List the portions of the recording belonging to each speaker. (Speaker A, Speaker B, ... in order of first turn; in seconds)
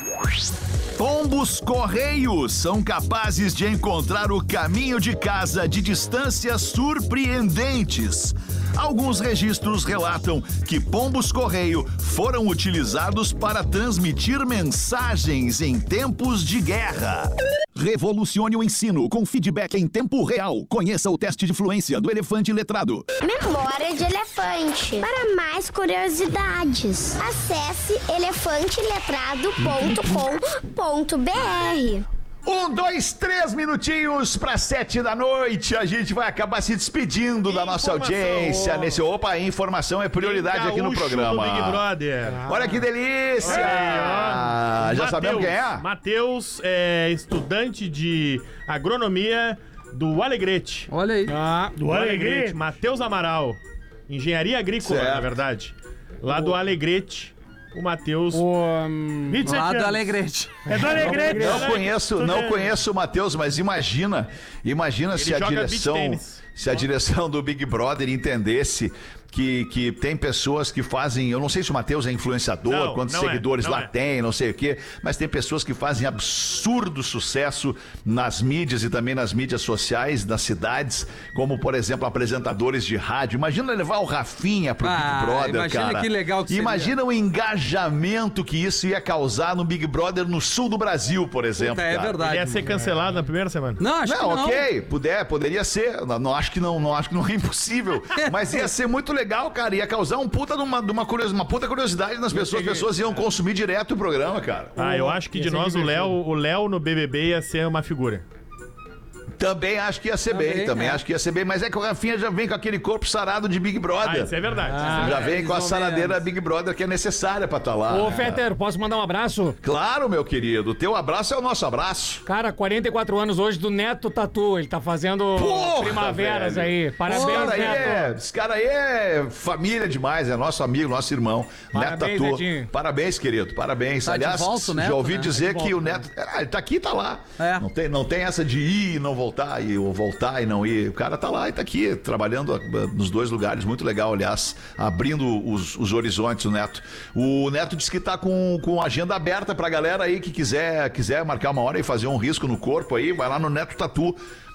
Speaker A: 1.0-23.1, 32.5-41.8, 42.5-45.9, 54.8-55.3, 61.4-92.2, 94.0-104.8, 109.4-114.3, 115.0-118.4, 119.6-122.2, 125.3-154.2
Speaker B: 23.2-32.1
Speaker C: 37.7-39.0, 42.3-42.8, 43.5-43.9, 51.3-51.8, 58.3-59.6, 60.7-61.7, 102.4-102.8, 104.8-106.1, 114.7-115.2, 117.9-119.6, 122.3-128.2, 131.7-132.7, 135.5-135.9
Speaker D: 40.2-42.5, 43.4-50.9, 51.9-58.5, 61.3-62.8, 65.2-66.5, 72.7-73.9, 92.2-93.8, 104.8-108.2, 114.0-115.2
Speaker E: 50.9-51.4, 59.4-61.6, 84.8-86.9, 91.6-92.7, 93.8-94.7, 98.2-98.6, 110.3-111.0, 114.7-116.2, 127.1-128.0, 134.1-135.7, 137.4-137.7
Speaker F: 51.8-52.6, 59.3-60.1, 60.7-61.8